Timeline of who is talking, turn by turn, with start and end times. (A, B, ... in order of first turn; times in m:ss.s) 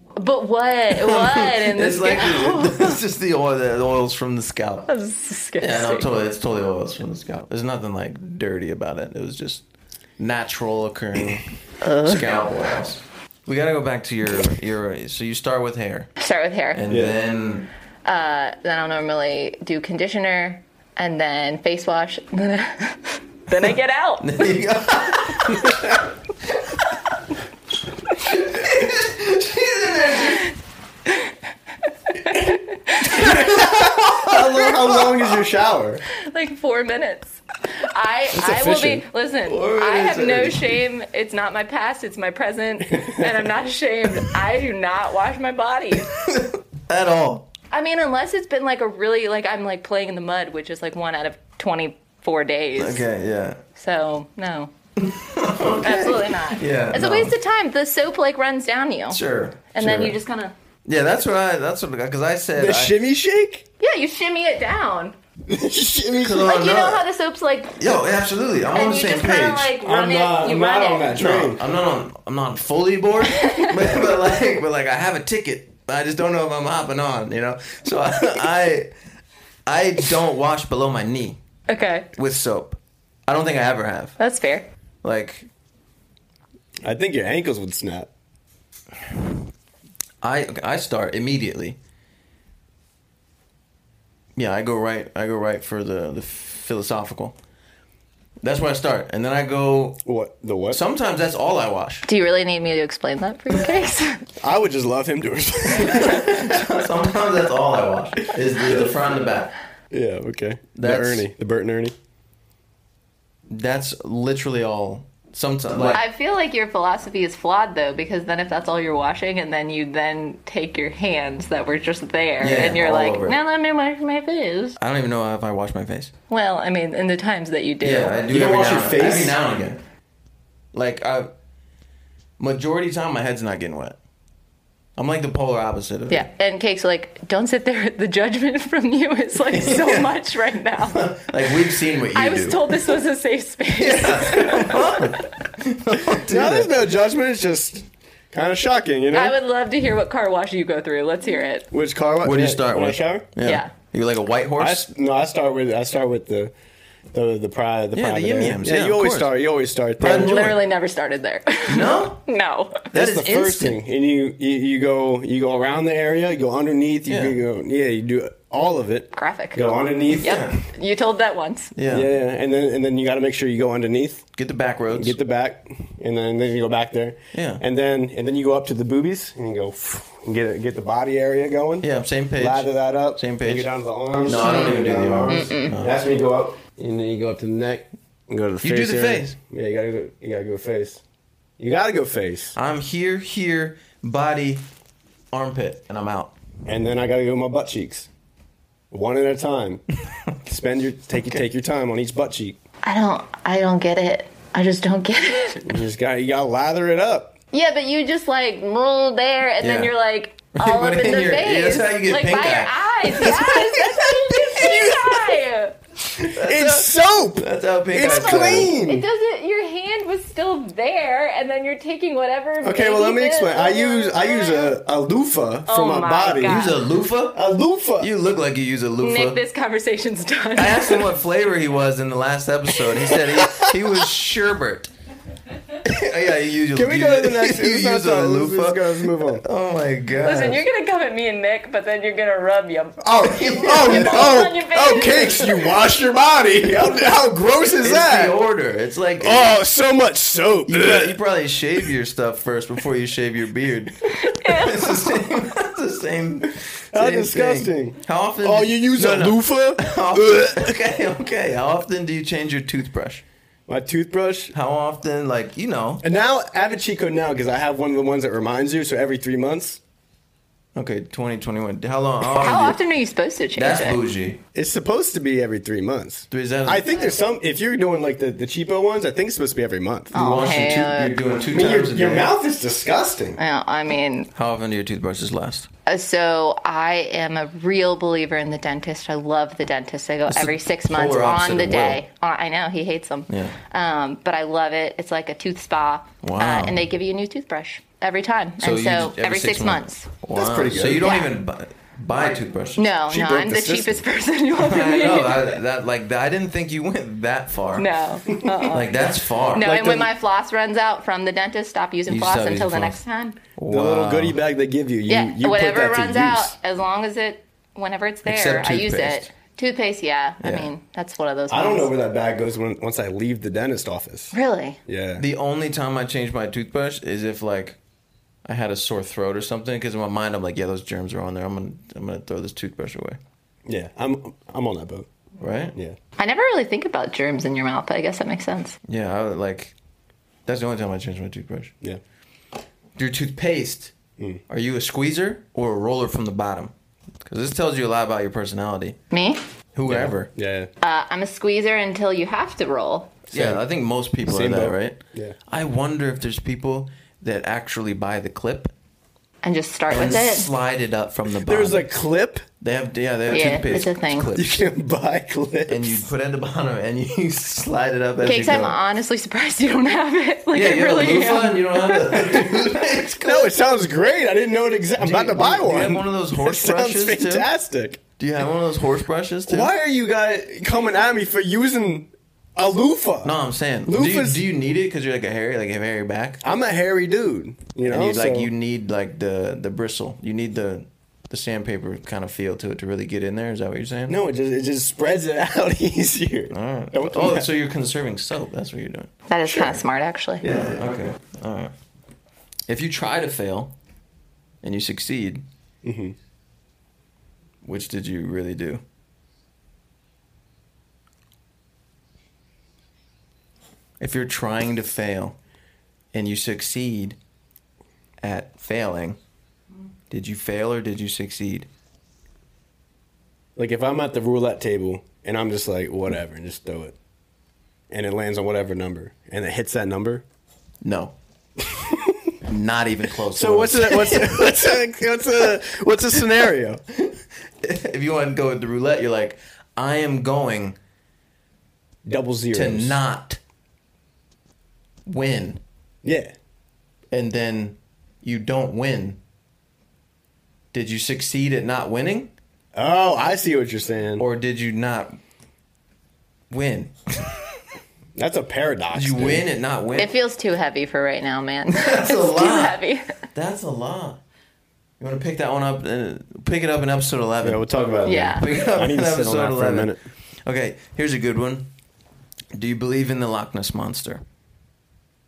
0:00.2-0:03.0 A
0:00.9-0:04.9 B
0:04.9-0:06.1 A
0:05.6-0:09.6 B
0:10.2-0:16.1 B
0:11.8-0:12.2 A
0:16.2-0:16.8 A
0:16.7-0:17.7 B
0:16.9-0:17.1 C
0:18.0-0:24.3 A
0:24.2-0:26.9 B
0:28.1-0:30.5 B
0:32.3-0:33.6 A
0:33.0-0:34.8 B
0:33.1-0:36.0 C
0:36.2-0:46.1 A
0:38.4-0:39.0 C
0:39.5-0:40.8 B
0:46.0-0:47.5 B
0:47.7-0:53.0 A
0:52.8-0:53.6 B
0:53.7-0:54.7 A
0:55.0-0:57.3 B
0:55.8-0:59.2 A
0:59.1-1:00.2 B
0:59.7-1:00.5 A
1:00.8-1:02.9 B
1:02.6-1:03.6 C
1:03.8-1:05.2 A
1:05.5-1:06.5 C
1:06.2-1:07.0 B
1:06.4-1:07.8 A
1:07.8-1:09.6 B
1:08.7-1:11.2 A
1:09.2-1:11.6 C
1:11.1-1:18.9 B
1:13.3-1:13.7 A
1:19.6-1:21.4 B
1:21.7-1:22.1 A
1:22.1-1:24.2 B
1:24.2-1:24.7 A
1:25.0-1:25.5 B
1:26.8-1:28.1 C
1:30.2-1:31.8 B
1:34.4-1:37.4 B
1:38.4-1:40.0 B
1:40.0-1:40.8 C
1:40.7-1:42.0 B
1:42.1-1:44.2 A
1:44.4-1:46.6 C
1:45.8-1:49.5 B
1:48.6-1:49.0 C
1:49.9-1:51.9 C
1:50.7-1:51.2 B
1:53.5-1:56.0 B
1:55.9-2:04.8 A
2:02.4-2:03.3 B
2:04.8-2:06.1 B
2:06.3-2:08.5 A
2:07.8-2:09.8 B
2:08.3-2:09.4 C
2:10.7-2:11.3 B
2:12.4-2:14.0 B
2:15.0-2:16.2 B
2:16.1-2:21.1 A
2:19.5-2:20.2 B
2:20.8-2:22.9 B
2:22.1-2:25.1 A
2:23.8-2:26.7 B
2:26.2-2:29.4 C
2:29.1-2:31.7 A
2:31.7-2:33.3 C
2:32.2-2:34.9 B
2:33.4-2:33.7 A
2:34.6-2:36.5 C
2:37.1-2:40.3 C
2:37.9-2:39.3 B
2:40.0-2:40.6 B
2:40.0-2:42.9 A
2:41.7-2:42.2 B
2:42.9-2:43.8 B
2:42.9-2:50.4 C
2:47.1-2:47.4 B
2:49.1-2:49.6 A
2:50.2-2:50.6 B
2:50.2-2:51.7 A
2:51.8-2:52.1 B
2:51.9-2:54.2 C
2:54.4-2:55.2 B
2:54.9-3:11.0 C
2:57.3-2:57.6 B
3:01.8-3:03.7 B
3:04.2-3:06.0 B
3:05.3-3:05.7 A
3:08.6-3:09.3 B
3:11.6-3:12.5 C
3:12.5-3:14.6 B
3:15.3-3:16.3 B
3:16.6-3:18.1 C
3:18.9-3:19.8 C
3:20.4-3:22.6 C
3:22.8-3:25.7 A
3:25.6-3:27.3 C
3:27.5-3:35.8 A
3:29.6-3:29.9 B
3:30.5-3:35.0 B
3:36.1-3:38.7 B
3:36.3-3:39.0 C
3:38.0-3:44.7 A
3:42.6-3:46.7 C
3:45.6-3:46.8 A
3:46.4-3:47.4 B
3:47.3-3:48.1 C
3:48.0-3:49.4 B
3:49.0-3:51.1 A
3:50.6-3:54.9 B
3:55.8-4:00.6 B
3:56.7-3:59.4 C
4:00.2-4:05.6 A
4:03.0-4:08.4 C
4:03.2-4:04.5 B
4:07.8-4:09.6 B
4:09.2-4:11.2 C
4:10.7-4:23.2 B
4:14.0-4:15.0 A
4:16.9-4:20.8 C
4:23.7-4:24.5 C
4:24.5-4:26.0 B
4:26.0-4:29.8 C
4:30.7-4:32.8 B
4:32.4-4:34.0 A
4:33.6-4:34.4 B
4:34.5-4:40.1 C
4:36.3-4:36.9 B
4:40.1-4:41.2 A
4:40.1-4:42.3 B
4:41.5-4:43.4 C
4:43.4-4:44.3 A
4:44.3-4:45.7 B
4:45.8-5:00.1 A
4:50.3-4:52.0 B
4:53.3-4:53.6 B
4:56.2-4:56.8 B
4:58.6-5:02.9 B
5:00.3-5:01.1 C
5:01.0-5:01.3 A
5:02.8-5:05.5 A
5:03.1-5:04.0 C
5:04.6-5:07.9 B
5:07.8-5:08.9 A
5:08.7-5:09.7 B
5:09.5-5:13.4 A
5:09.6-5:10.1 C
5:12.1-5:13.0 B
5:13.6-5:14.4 B
5:13.7-5:16.5 C
5:15.1-5:21.9 A
5:18.2-5:19.3 B
5:20.4-5:20.7 B
5:21.5-5:24.3 C
5:24.3-5:24.8 A
5:24.9-5:25.2 C
5:25.2-5:27.8 B
5:28.4-5:33.2 B
5:33.7-5:35.1 C
5:35.4-5:35.7 B
5:36.2-5:38.8 A
5:38.8-5:39.7 B
5:40.4-5:41.7 B
5:43.0-5:43.9 B
5:44.5-5:49.0 B
5:49.1-5:49.4 A
5:49.7-5:50.3 B
5:49.9-5:50.7 C
5:50.8-5:53.2 A
5:53.3-5:55.0 B
5:53.3-5:53.6 C
5:54.2-5:55.4 C
5:55.5-5:58.7 B
5:59.4-6:00.5 A
5:59.9-6:01.8 B
6:01.4-6:02.5 C
6:02.6-6:04.6 B
6:03.3-6:04.3 A
6:04.3-6:06.1 C
6:05.7-6:08.8 B
6:08.2-6:12.8 A
6:10.5-6:13.5 B
6:13.2-6:18.0 C
6:15.0-6:17.5 B
6:18.2-6:19.7 B
6:19.5-6:24.4 C
6:23.2-6:26.4 B
6:26.4-6:28.5 C
6:27.9-6:34.2 B
6:34.1-6:37.5 C
6:36.5-6:39.7 B
6:39.3-6:40.4 A
6:40.4-6:41.7 B
6:42.7-6:43.7 B
6:44.6-6:45.4 B
6:45.8-6:46.1 C
6:47.6-6:48.8 B
6:54.0-6:55.4 B
6:56.1-6:57.2 B
6:58.2-6:59.2 B
7:00.1-7:01.7 B
7:03.6-7:07.0 C
7:07.9-7:10.2 C
7:10.8-7:11.1 B
7:11.6-7:12.3 C
7:12.4-7:14.8 B
7:13.3-7:16.8 C
7:16.9-7:20.8 B
7:22.0-7:23.0 C
7:22.5-7:23.4 B
7:25.0-7:25.6 B
7:26.0-7:26.3 C
7:27.1-7:29.2 B
7:30.7-7:32.3 B
7:32.8-7:34.2 C
7:34.2-7:35.2 B
7:36.5-7:37.6 B
7:38.1-7:39.4 C
7:38.9-7:40.1 B
7:40.0-7:43.2 A
7:41.7-7:42.8 B
7:43.3-7:44.2 B
7:45.0-7:47.6 B
7:47.4-7:50.0 C
7:48.0-7:48.4 A
7:48.3-7:49.9 B
7:50.4-7:51.7 B
7:52.5-7:54.2 B